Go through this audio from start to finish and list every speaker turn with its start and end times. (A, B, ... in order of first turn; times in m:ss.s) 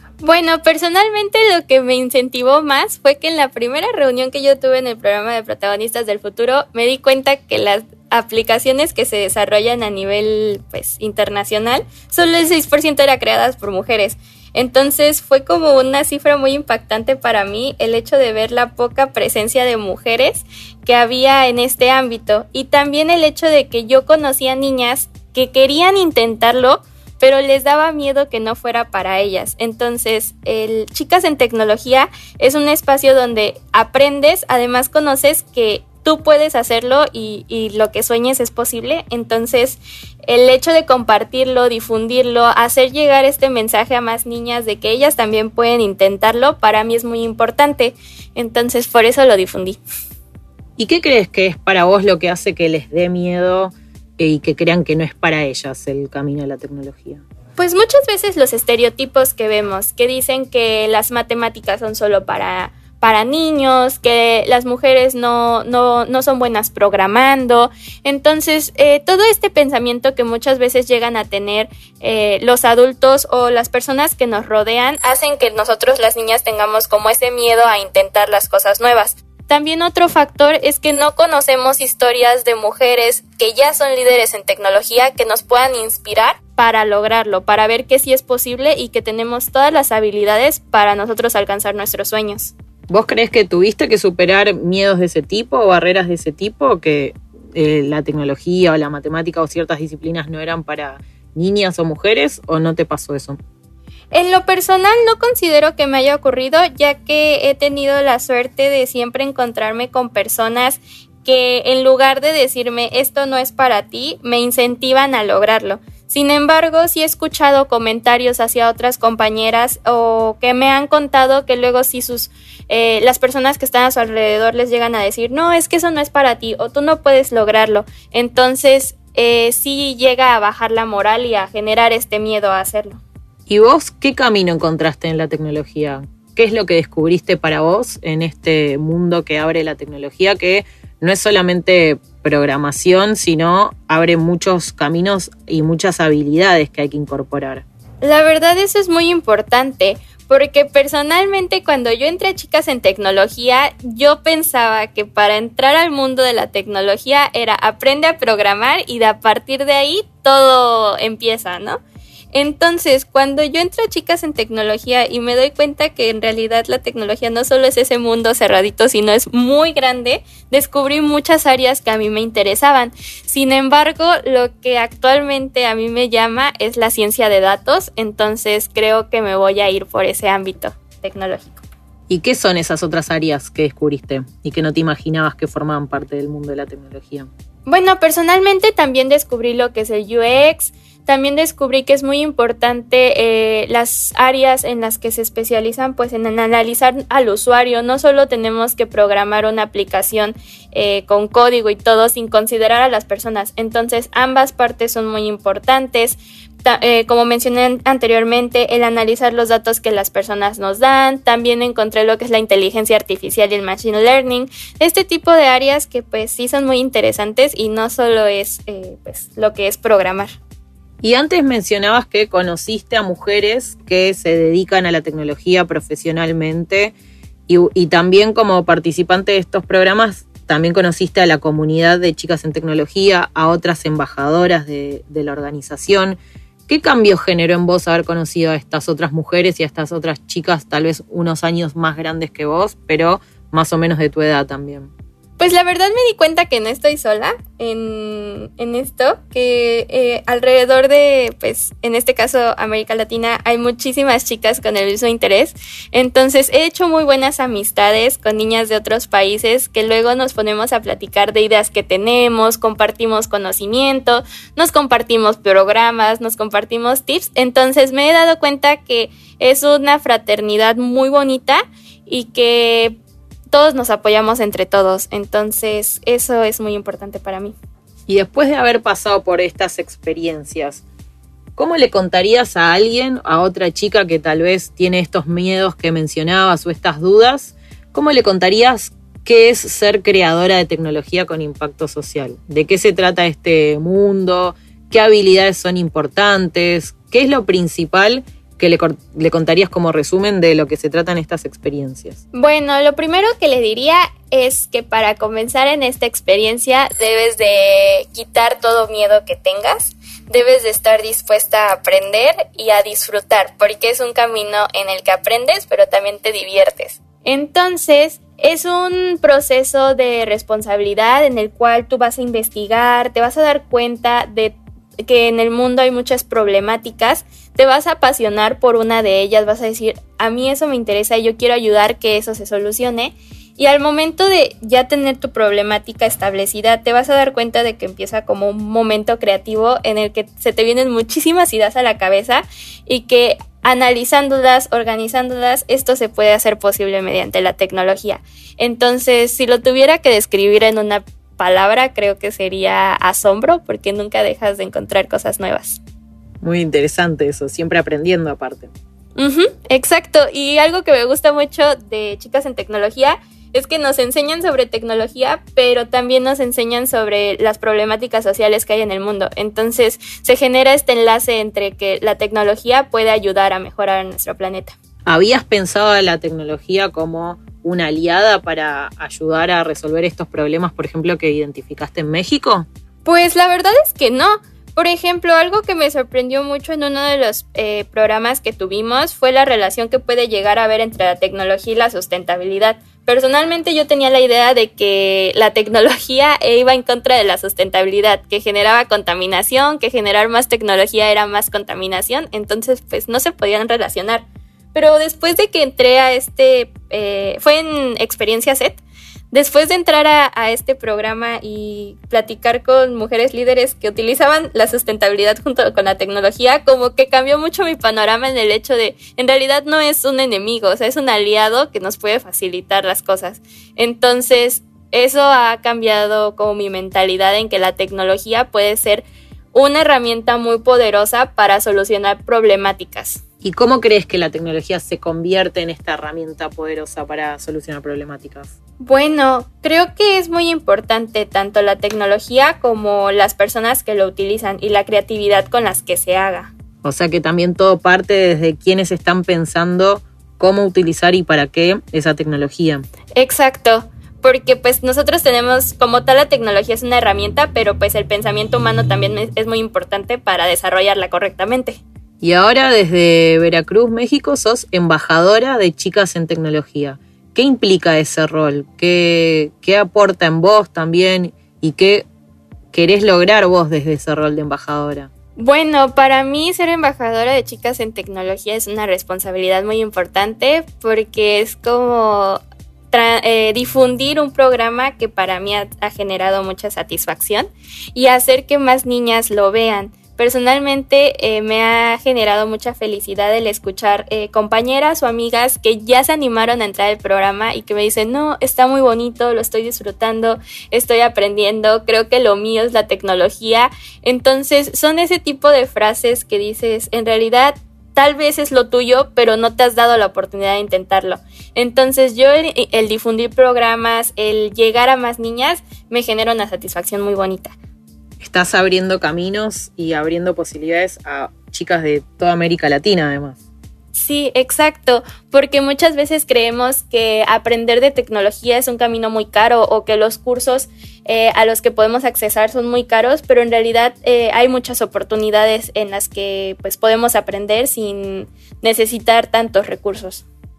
0:00.2-0:49.8 A
0:50.8-0:57.2 B
0:57.6-1:32.5 A
1:32.9-1:43.4 B
1:44.1-2:13.0 A
2:13.5-2:27.6 B
2:28.0-2:41.8 A
2:42.3-3:01.6 A
3:02.1-3:07.3 B
3:07.7-3:40.3 A
3:41.0-3:46.9 B
3:47.5-4:04.9 B
4:05.4-4:32.9 A
4:33.5-4:37.5 A
4:38.1-4:40.8 B
4:41.6-5:02.2 B
5:02.3-5:55.8 A
5:56.4-5:58.7 B
5:59.2-6:14.7 A
6:15.0-6:22.7 B
6:23.0-6:48.8 A
6:49.3-7:13.2 A
7:13.4-7:18.5 B
7:18.8-7:26.5 A
7:26.8-7:32.8 B
7:33.2-7:41.8 A
7:42.2-7:52.0 B
7:52.7-7:55.1 B
7:55.4-8:37.5 A
8:38.2-8:43.4 B
8:43.9-9:00.2 A